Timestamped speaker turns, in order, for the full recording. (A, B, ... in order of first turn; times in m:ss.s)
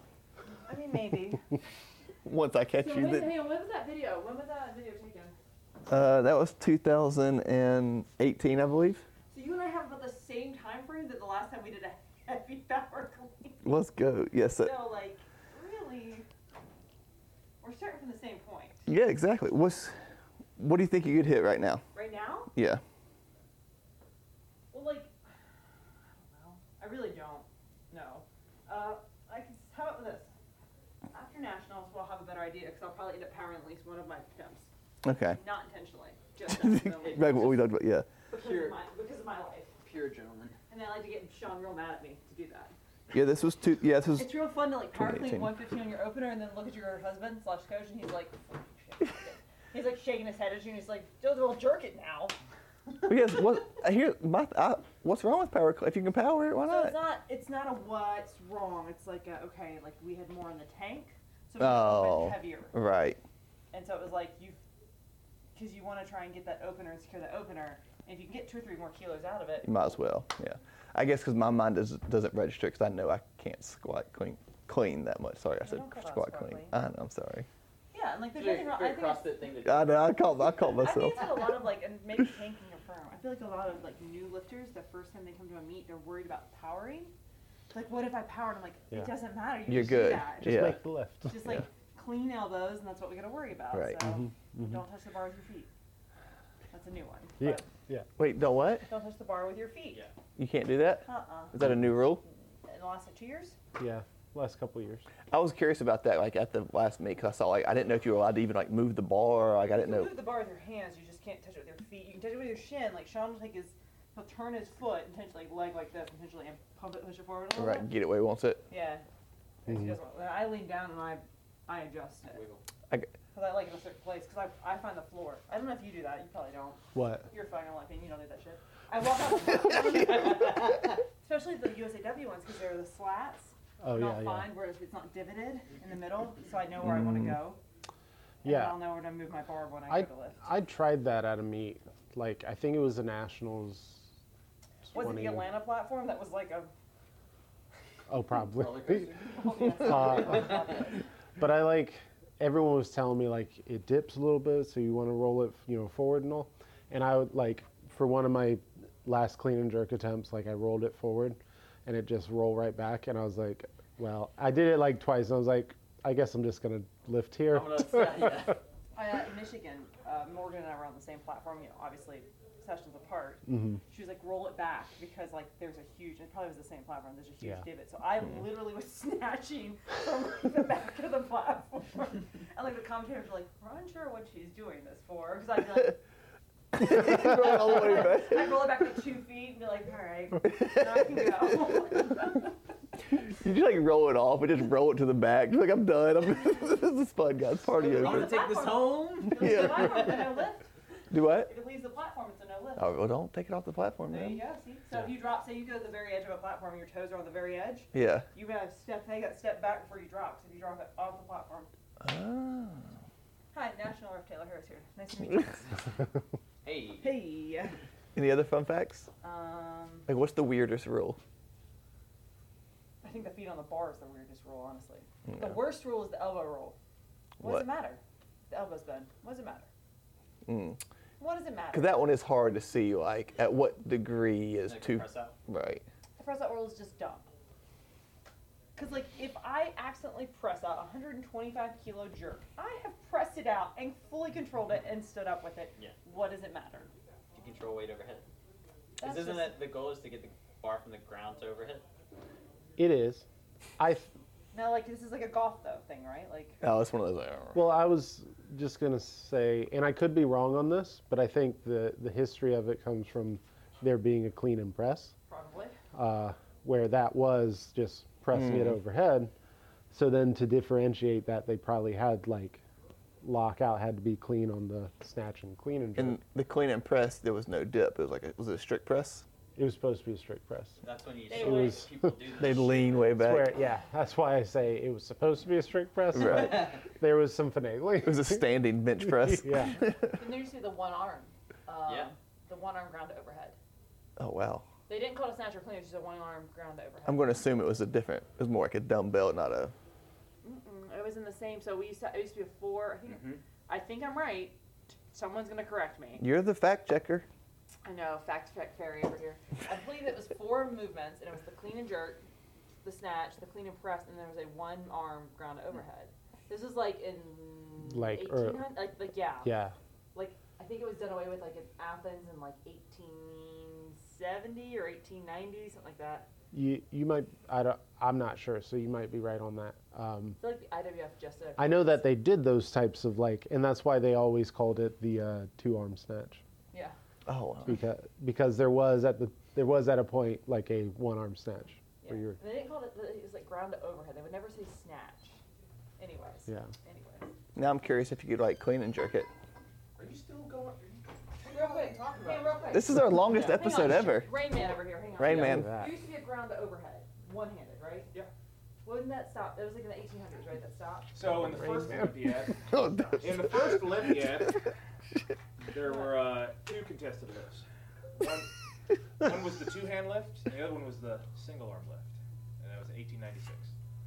0:00.7-0:01.5 A
0:02.2-0:03.3 B
0:02.8-0:05.4 A
0:05.9-0:09.0 B
0:09.3-0:13.6 A
0:13.6-0:14.8 B
0:14.6-0:16.2 A
0:17.6-0:18.8 A
0:18.9-0:20.0 B
0:20.6-0:21.9 B
0:21.9-0:22.5 A
0:22.5-0:22.8 B
0:24.7-0:25.1 A
0:26.2-0:30.3 A
0:31.1-0:34.7 A
0:35.0-0:35.4 B
0:35.3-0:37.6 A
0:36.5-0:38.1 B
0:38.3-0:39.7 A
0:38.4-0:38.8 C
0:39.8-0:40.6 C
0:40.7-0:42.7 A
0:43.1-0:45.5 B
0:44.2-0:52.4 A
0:53.1-0:57.0 B
0:56.6-1:02.7 A
1:01.6-1:03.2 B
1:03.7-1:04.6 A
1:05.5-1:09.7 A
1:09.6-1:17.5 B
1:15.6-1:16.7 A
1:17.9-1:19.4 A
1:18.3-1:20.1 C
1:19.6-1:21.5 B
1:20.8-1:27.1 A
1:27.7-1:30.7 A
1:29.7-1:30.8 B
1:30.4-1:31.5 D
1:31.3-1:35.7 A
1:33.7-1:34.0 B
1:34.1-1:34.8 D
1:36.7-1:37.6 A
1:37.4-1:38.1 D
1:38.2-1:38.9 B
1:38.9-1:40.0 A
1:40.4-1:42.2 B
1:41.0-1:41.7 A
1:42.2-1:43.6 A
1:43.8-1:45.1 D
1:45.3-1:50.1 B
1:49.8-1:57.9 A
1:57.5-1:58.7 B
1:58.7-1:59.0 A
1:59.6-2:02.4 A
2:02.2-2:02.6 C
2:03.3-2:17.6 A
2:06.9-2:07.3 D
2:10.3-2:10.9 C
2:13.8-2:14.5 D
2:16.9-2:17.3 B
2:18.4-2:18.8 D
2:18.4-2:20.4 A
2:19.9-2:24.1 D
2:24.8-2:25.5 D
2:24.9-2:26.7 A
2:28.1-2:30.6 D
2:28.5-2:30.7 C
2:29.1-2:31.0 A
2:31.4-2:48.5 D
2:47.5-2:48.6 C
2:48.9-3:06.0 A
2:53.5-2:53.8 D
3:06.7-3:08.7 B
3:06.8-3:12.5 A
3:10.6-3:11.1 B
3:13.2-3:18.4 B
3:17.8-3:20.7 A
3:17.8-3:20.3 C
3:19.4-3:20.0 B
3:21.1-3:21.5 B
3:21.3-3:22.9 A
3:22.8-3:24.4 B
3:24.1-3:31.7 A
3:27.9-3:28.3 B
3:32.0-3:32.9 B
3:33.5-3:36.0 A
3:36.6-3:37.2 C
3:37.0-3:37.8 A
3:38.1-3:39.1 B
3:39.2-3:40.1 A
3:40.1-3:41.2 B
3:43.0-3:46.8 A
3:45.3-3:45.6 B
3:47.4-3:47.7 B
3:47.4-3:49.7 A
3:50.4-3:50.8 B
3:51.2-3:52.1 A
3:51.7-3:55.9 B
3:54.6-3:55.4 C
3:56.2-3:57.3 A
3:58.8-4:06.9 A
4:07.3-4:08.3 C
4:09.0-4:09.6 A
4:09.0-4:11.8 C
4:12.8-4:13.2 D
4:13.8-4:14.1 D
4:14.5-4:16.6 A
4:16.6-4:17.6 B
4:17.5-4:25.1 D
4:25.3-4:25.8 A
4:25.9-4:29.3 D
4:28.3-4:28.7 B
4:29.9-4:32.6 D
4:33.2-4:36.2 D
4:36.0-4:39.2 B
4:39.6-4:40.8 D
4:40.8-4:43.2 C
4:41.3-4:41.9 A
4:41.4-4:41.9 D
4:42.4-4:43.5 B
4:43.2-4:48.5 D
4:46.1-4:46.8 B
4:48.0-4:50.2 B
4:49.0-4:49.8 D
4:50.0-4:53.6 A
4:51.9-4:52.1 C
4:54.2-4:54.7 B
4:54.9-4:57.3 A
4:57.0-4:59.7 B
5:00.4-5:06.2 A
5:03.1-5:03.4 C
5:06.2-5:07.3 B
5:07.8-5:12.3 A
5:12.8-5:19.5 A
5:17.8-5:18.7 D
5:19.4-5:19.7 D
5:20.1-5:26.3 A
5:26.5-5:30.4 D
5:30.4-5:32.0 A
5:31.6-5:36.4 D
5:37.2-5:37.8 B
5:37.6-5:42.4 D
5:42.0-5:45.4 A
5:46.0-5:47.3 A
5:47.5-5:49.3 B
5:50.0-5:52.6 E
5:51.4-5:58.1 A
5:52.7-5:54.3 B
5:53.3-5:53.7 C
5:55.2-5:55.7 B
5:55.2-5:55.9 D
5:58.8-6:01.2 A
6:01.1-6:04.7 E
6:01.2-6:02.1 D
6:02.7-6:03.6 B
6:05.6-6:07.6 E
6:08.2-6:08.5 E
6:09.2-6:13.7 E